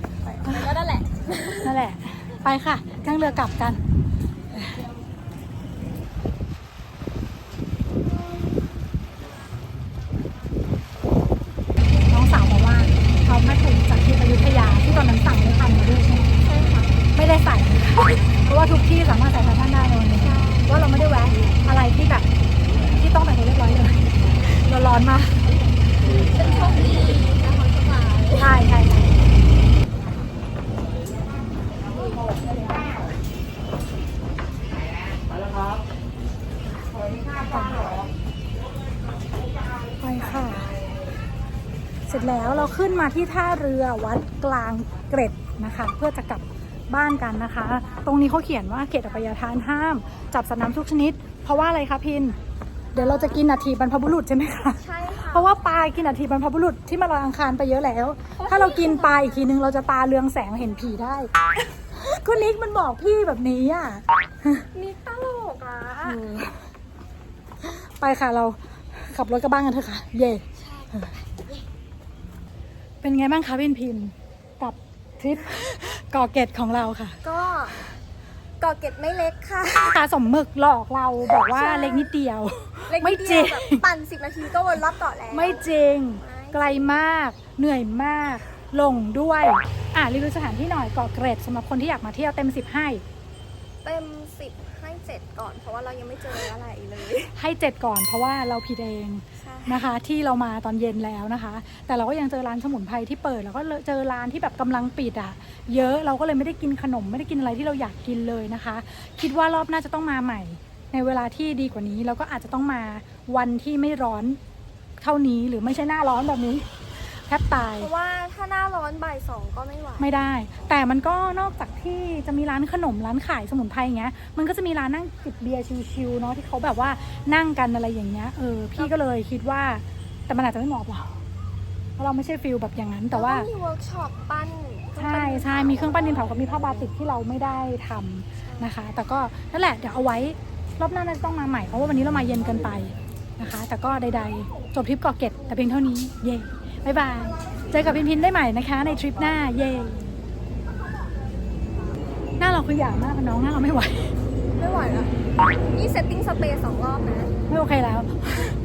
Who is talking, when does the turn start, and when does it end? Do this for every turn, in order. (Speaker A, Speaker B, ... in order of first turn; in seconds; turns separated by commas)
Speaker A: 0.2-1.8, Speaker B: 1.6-3.8, Speaker B: 4.5-4.8, Speaker B: 12.0-16.3, Speaker A: 16.3-17.0, Speaker B: 17.1-22.3, Speaker A: 20.2-20.8, Speaker B: 22.8-25.5, Speaker B: 26.0-26.3, Speaker A: 26.0-28.6, Speaker B: 28.4-29.2, Speaker A: 31.9-33.0, Speaker B: 37.2-38.1, Speaker B: 40.0-40.8, Speaker B: 42.1-52.4, Speaker A: 52.9-53.5, Speaker B: 52.9-61.3, Speaker A: 54.7-55.5, Speaker A: 58.4-59.5, Speaker B: 61.9-64.6, Speaker A: 64.7-66.2, Speaker B: 66.0-66.7, Speaker B: 67.6-70.4, Speaker A: 70.5-71.7, Speaker B: 73.0-77.2, Speaker A: 77.2-77.8, Speaker A: 78.6-80.1, Speaker B: 79.8-83.8, Speaker A: 81.4-82.1, Speaker A: 82.9-86.9, Speaker B: 85.3-93.0, Speaker A: 93.8-97.3, Speaker B: 97.3-114.4, Speaker A: 99.4-99.9, Speaker B: 115.0-117.9, Speaker A: 117.7-120.1, Speaker B: 120.0-131.2, Speaker B: 132.0-133.5, Speaker A: 133.1-136.9, Speaker B: 135.0-150.1, Speaker A: 138.4-138.8, Speaker A: 144.0-144.7, Speaker A: 147.1-148.1, Speaker A: 150.9-151.6, Speaker B: 152.4-154.2, Speaker A: 154.5-157.3, Speaker B: 157.5-158.6